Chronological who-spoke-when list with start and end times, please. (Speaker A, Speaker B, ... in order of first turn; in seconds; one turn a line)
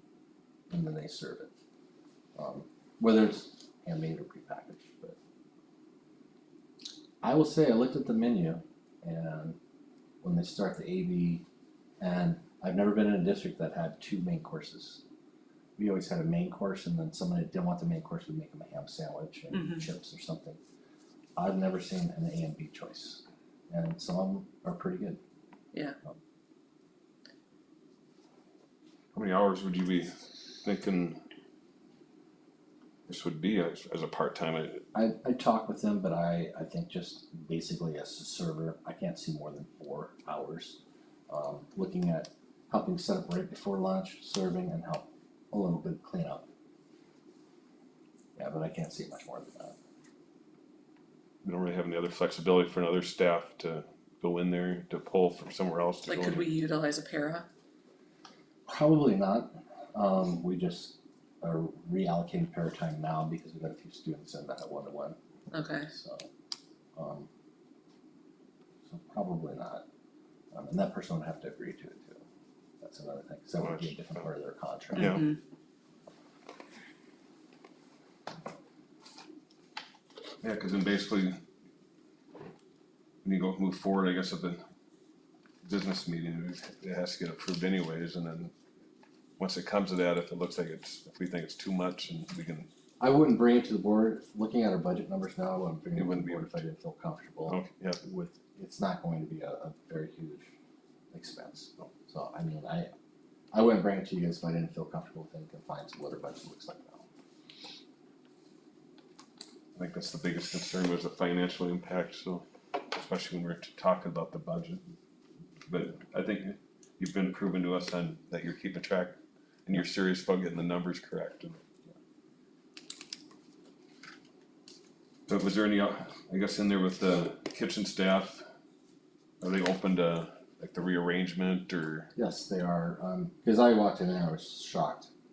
Speaker A: 0.7-1.5
Speaker A: 2.4-5.2
Speaker A: 7.2-9.6
Speaker A: 10.2-11.4
Speaker A: 12.0-15.0
Speaker A: 15.8-20.6
Speaker B: 19.5-19.8
Speaker A: 21.4-25.2
Speaker C: 29.1-31.2
Speaker C: 33.1-34.9
Speaker A: 34.9-46.5
Speaker A: 48.4-49.8
Speaker C: 51.4-56.5
Speaker B: 56.1-57.5
Speaker A: 58.7-65.2
Speaker B: 65.5-65.9
Speaker A: 65.9-66.3
Speaker A: 67.0-67.3
Speaker A: 68.9-69.8
Speaker A: 70.5-72.2
Speaker A: 72.8-75.3
Speaker B: 75.0-75.4
Speaker C: 75.0-75.2
Speaker C: 80.4-81.4
Speaker C: 83.2-84.6
Speaker C: 85.6-88.5
Speaker C: 89.4-92.7
Speaker A: 93.0-100.5
Speaker C: 96.0-96.6
Speaker C: 97.5-98.0
Speaker A: 101.1-102.9
Speaker A: 103.5-107.1
Speaker C: 109.8-114.8
Speaker C: 115.7-121.6
Speaker C: 125.3-128.5
Speaker C: 129.4-132.1
Speaker A: 132.2-135.1